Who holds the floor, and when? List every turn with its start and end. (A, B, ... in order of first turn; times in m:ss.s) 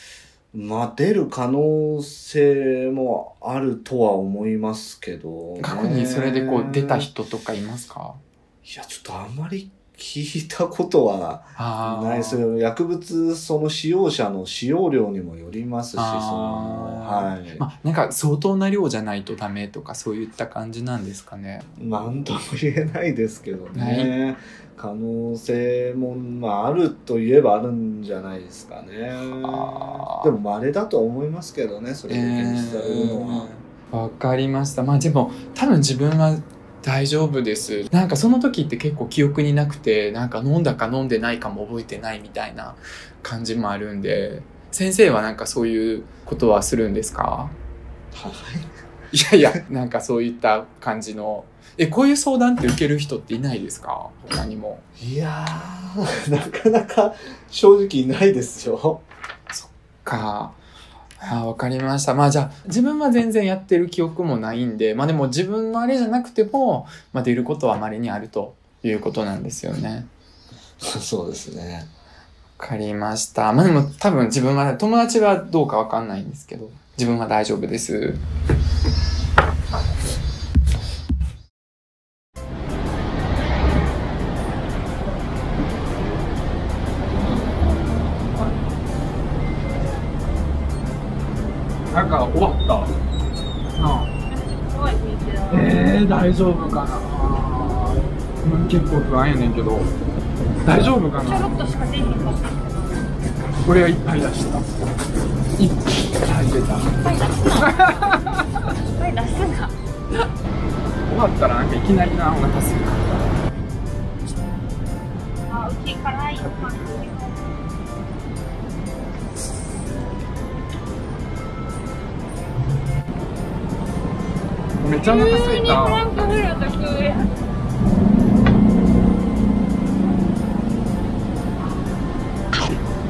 0:00.5-0:07.1 A
0:05.6-0:08.2 B
0:08.6-0:17.6 A
0:11.6-0:12.4 B
0:16.0-0:21.7 B
0:21.8-0:33.5 A
0:23.7-0:24.1 B
0:29.4-0:30.3 B
0:32.1-0:47.5 B
0:48.1-0:48.7 A
0:49.1-0:54.8 B
0:55.0-0:59.0 A
0:59.5-1:00.6 B
1:01.2-1:10.1 B
1:10.8-1:11.9 A
1:12.6-1:18.2 B
1:31.9-1:32.9 B
1:33.8-1:34.1 B
1:34.2-1:35.9 C
1:35.5-1:39.9 B
1:40.6-1:41.5 B
1:41.2-1:43.0 C
1:43.6-1:44.6 B
1:45.6-1:46.9 B
1:47.0-1:49.7 C
1:47.6-1:48.6 B
1:51.1-1:53.3 B
1:55.5-1:57.5 C
1:56.4-1:57.0 B
2:04.8-2:06.0 B
2:04.9-2:07.3 C